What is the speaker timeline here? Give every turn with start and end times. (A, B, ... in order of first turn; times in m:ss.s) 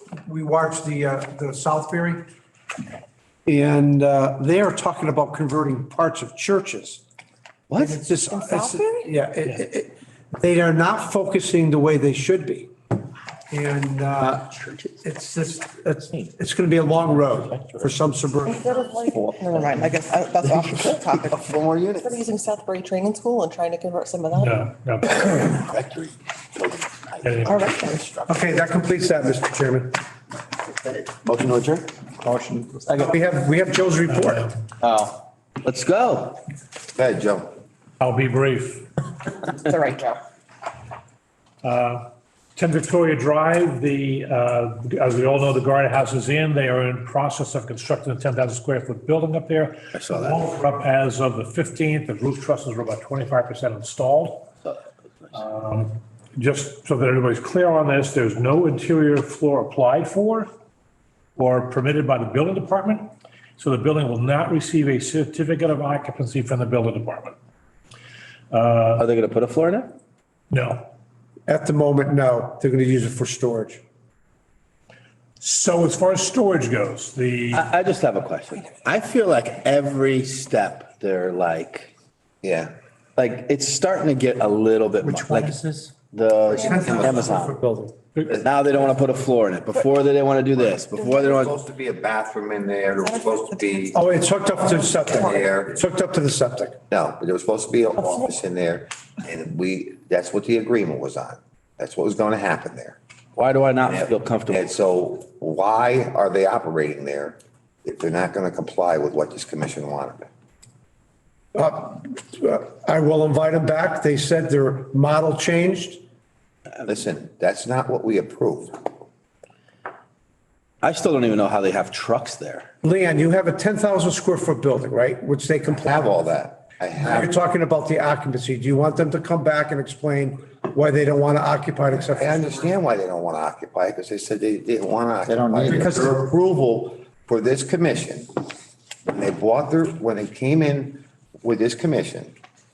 0:00.2-0:02.3 A
0:03.4-0:07.0 A
0:07.7-0:08.0 B
0:07.7-0:12.7 A
0:08.2-0:09.2 C
0:13.5-0:19.0 A
0:17.4-0:18.0 D
0:18.4-0:24.7 C
0:19.1-0:19.8 D
0:21.3-0:22.2 E
0:24.3-0:25.3 F
0:25.3-0:28.2 B
0:27.2-0:27.7 F
0:27.4-0:28.0 C
0:28.2-0:30.0 A
0:31.2-0:31.9 E
0:32.2-0:33.1 D
0:33.0-0:34.5 A
0:34.1-0:34.6 F
0:34.8-0:36.4 B
0:36.9-0:37.5 E
0:38.0-0:38.9 F
0:39.5-0:40.2 C
0:41.6-0:54.5 F
0:49.9-0:50.5 B
0:55.3-1:00.5 F
1:01.4-1:07.3 F
1:08.5-1:09.0 F
1:09.0-1:09.9 B
1:10.5-1:10.9 F
1:11.5-1:13.8 A
1:15.4-1:17.7 F
1:17.5-1:21.9 B
1:22.4-1:22.7 E
1:23.2-1:27.6 B
1:25.0-1:25.7 A
1:26.5-1:27.2 E
1:26.6-1:28.0 A
1:28.2-1:28.9 E
1:28.4-1:31.5 B
1:30.5-1:34.0 E
1:33.0-1:34.5 C
1:33.9-1:36.8 A
1:35.0-1:35.7 E
1:36.9-1:43.0 E
1:43.4-1:44.7 B
1:43.8-1:50.3 E
1:51.5-1:56.0 A
1:56.8-1:58.9 E
2:00.8-2:02.7 B
2:02.8-2:06.1 A
2:05.8-2:07.3 E
2:07.0-2:12.7 A
2:12.0-2:18.3 E
2:15.2-2:15.9 D
2:15.6-2:16.3 A
2:19.1-2:22.3 E